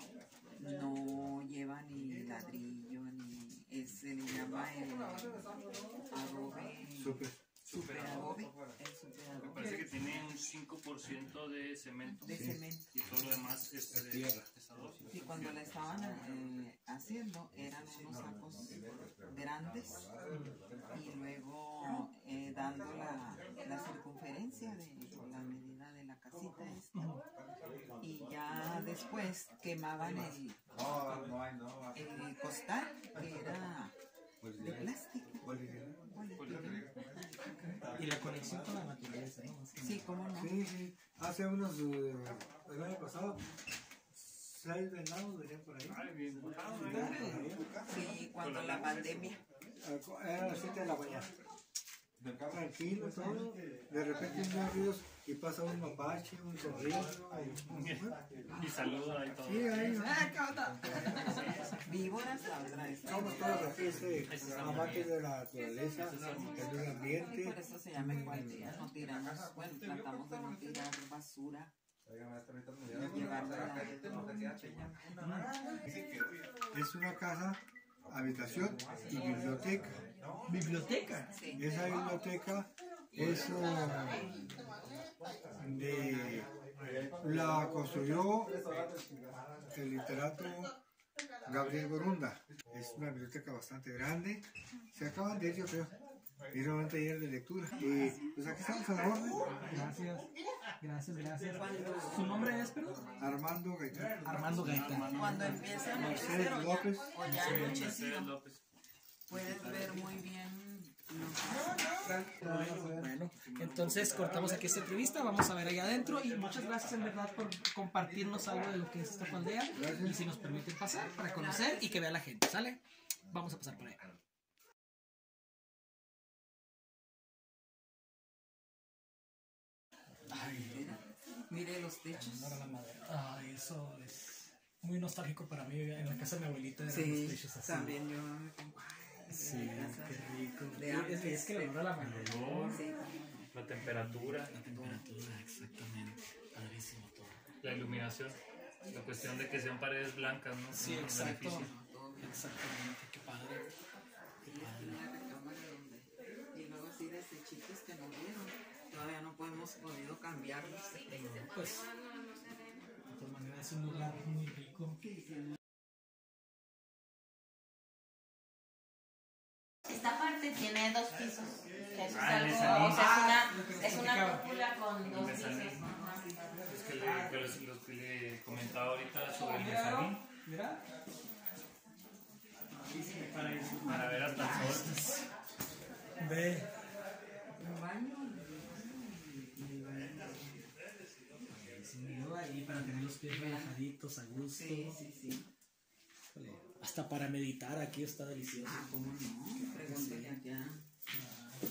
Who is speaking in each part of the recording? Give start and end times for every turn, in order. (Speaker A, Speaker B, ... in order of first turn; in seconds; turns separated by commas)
Speaker A: 0.6-5.5, Speaker A: 6.1-9.9, Speaker B: 7.0-7.4, Speaker C: 9.5-15.5, Speaker D: 9.6-9.8, Speaker A: 12.2-12.9, Speaker B: 12.3-12.6, Speaker B: 13.9-14.5, Speaker A: 15.1-20.1, Speaker D: 20.3-20.6, Speaker A: 20.9-27.0, Speaker D: 26.9-27.2, Speaker A: 28.0-31.3, Speaker A: 31.9-34.0, Speaker B: 34.4-34.9, Speaker A: 34.6-37.5, Speaker B: 35.5-35.9, Speaker C: 36.3-36.9, Speaker D: 37.5-40.0, Speaker A: 39.8-40.6, Speaker B: 40.4-43.4, Speaker B: 44.1-48.0, Speaker C: 45.9-47.1, Speaker D: 46.8-47.5, Speaker A: 47.9-49.4, Speaker C: 48.3-49.4, Speaker B: 49.8-51.3, Speaker B: 52.5-58.2, Speaker C: 57.7-59.9, Speaker B: 59.4-60.3, Speaker D: 59.9-61.7, Speaker A: 61.8-64.2, Speaker B: 63.1-67.6, Speaker C: 64.3-65.2, Speaker C: 66.0-67.0, Speaker A: 66.8-71.7, Speaker D: 68.0-68.8, Speaker A: 72.9-75.1, Speaker D: 75.2-75.5, Speaker B: 76.7-80.1, Speaker D: 80.5-81.3, Speaker A: 81.3-81.8, Speaker B: 81.6-84.3, Speaker B: 85.6-86.5, Speaker B: 87.2-88.6, Speaker B: 89.7-90.7, Speaker B: 91.5-96.0, Speaker B: 96.5-99.4, Speaker D: 99.6-103.1, Speaker A: 101.5-102.4, Speaker B: 103.2-104.3, Speaker D: 104.2-105.5, Speaker C: 104.5-106.2, Speaker A: 105.0-108.3, Speaker B: 105.9-107.2, Speaker C: 107.3-108.6, Speaker D: 107.3-107.8, Speaker A: 109.3-112.2, Speaker D: 112.2-124.0, Speaker C: 113.4-114.7, Speaker B: 119.7-120.2, Speaker D: 130.3-131.0, Speaker A: 130.3-132.7, Speaker D: 132.1-138.0, Speaker A: 136.8-143.5, Speaker D: 139.3-142.8, Speaker C: 142.0-142.8, Speaker C: 143.5-148.4, Speaker D: 144.5-145.4, Speaker C: 148.9-151.7, Speaker A: 149.1-149.4, Speaker D: 150.7-153.7, Speaker A: 150.9-152.7, Speaker D: 154.4-155.0, Speaker A: 154.4-161.4, Speaker E: 160.9-162.8, Speaker D: 161.1-161.9, Speaker D: 163.1-165.0, Speaker A: 165.0-165.5, Speaker E: 169.9-176.7, Speaker C: 172.0-173.2, Speaker D: 172.6-174.5, Speaker C: 175.0-175.8, Speaker C: 176.7-180.2, Speaker D: 176.9-177.5, Speaker D: 179.3-180.8, Speaker D: 182.7-185.3, Speaker C: 183.8-185.0, Speaker D: 186.2-186.7, Speaker A: 187.6-190.7, Speaker D: 191.5-195.0, Speaker A: 193.2-193.8, Speaker A: 194.5-195.5, Speaker D: 196.3-198.9, Speaker A: 198.6-200.8, Speaker D: 199.7-200.4, Speaker D: 201.1-201.6